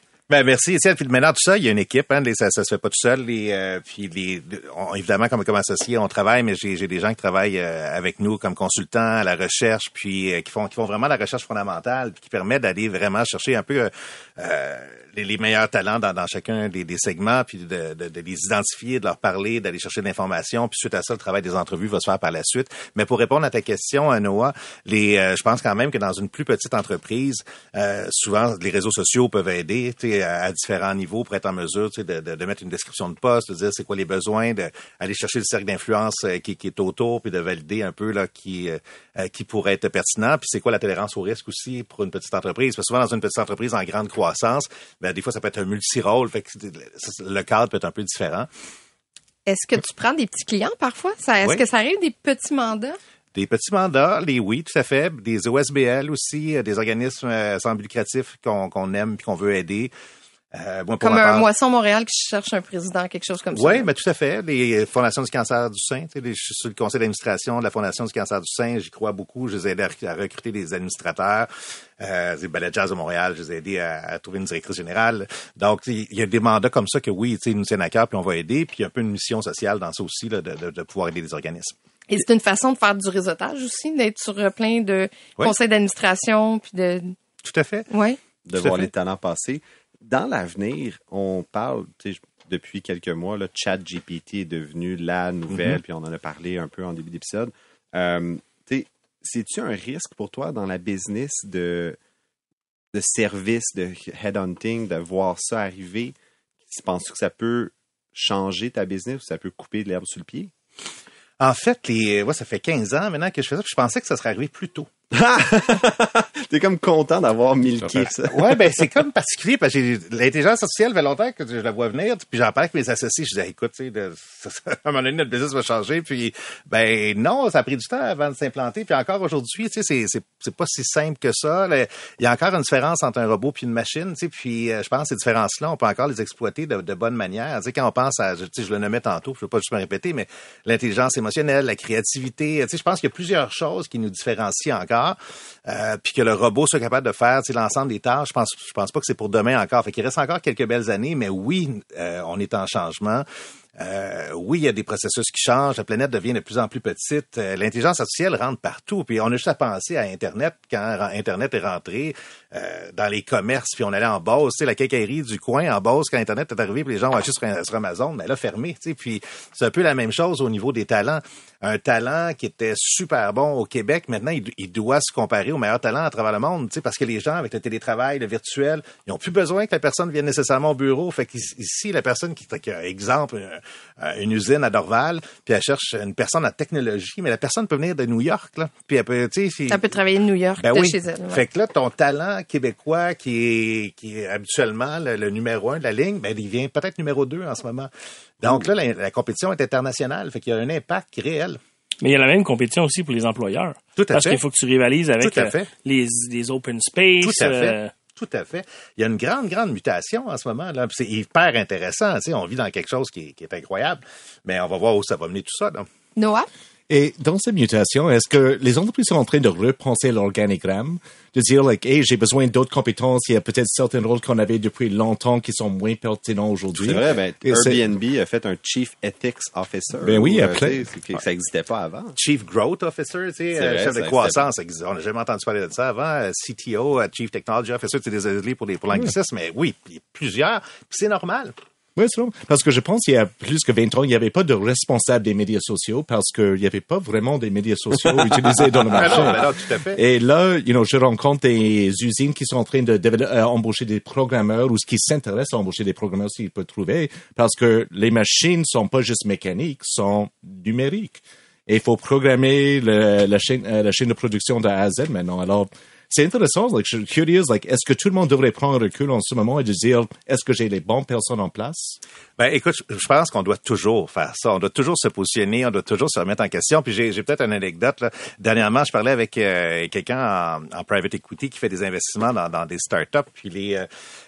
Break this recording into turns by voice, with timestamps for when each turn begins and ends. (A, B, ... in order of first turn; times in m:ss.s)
0:00.3-0:48.5 A
0:49.5-0:53.0 B
0:53.3-0:59.9 A
1:00.5-1:01.4 A
1:01.0-1:03.9 B
1:03.5-1:21.7 A
1:22.1-1:27.1 B
1:27.4-1:27.9 A
1:27.9-1:28.2 B
1:28.4-1:42.0 C
1:28.5-1:28.9 A
1:42.9-1:46.1 C
1:46.7-1:50.5 C
1:51.4-1:54.9 A
1:55.1-1:58.6 C
1:58.0-3:09.9 A
3:09.7-3:11.4 B
3:10.6-3:17.9 A
3:18.4-3:21.6 A
3:22.0-3:27.9 D
3:24.0-3:24.4 A
3:25.2-3:25.7 A
3:27.2-3:35.8 A
3:36.2-3:36.5 B
3:36.9-3:47.8 E
3:46.7-3:52.2 C
3:50.0-3:50.8 E
3:52.2-4:01.5 A
3:53.5-3:54.5 C
4:02.0-4:09.4 E
4:08.0-4:09.4 C
4:08.9-4:10.0 A
4:09.9-4:32.0 E
4:32.4-4:43.9 A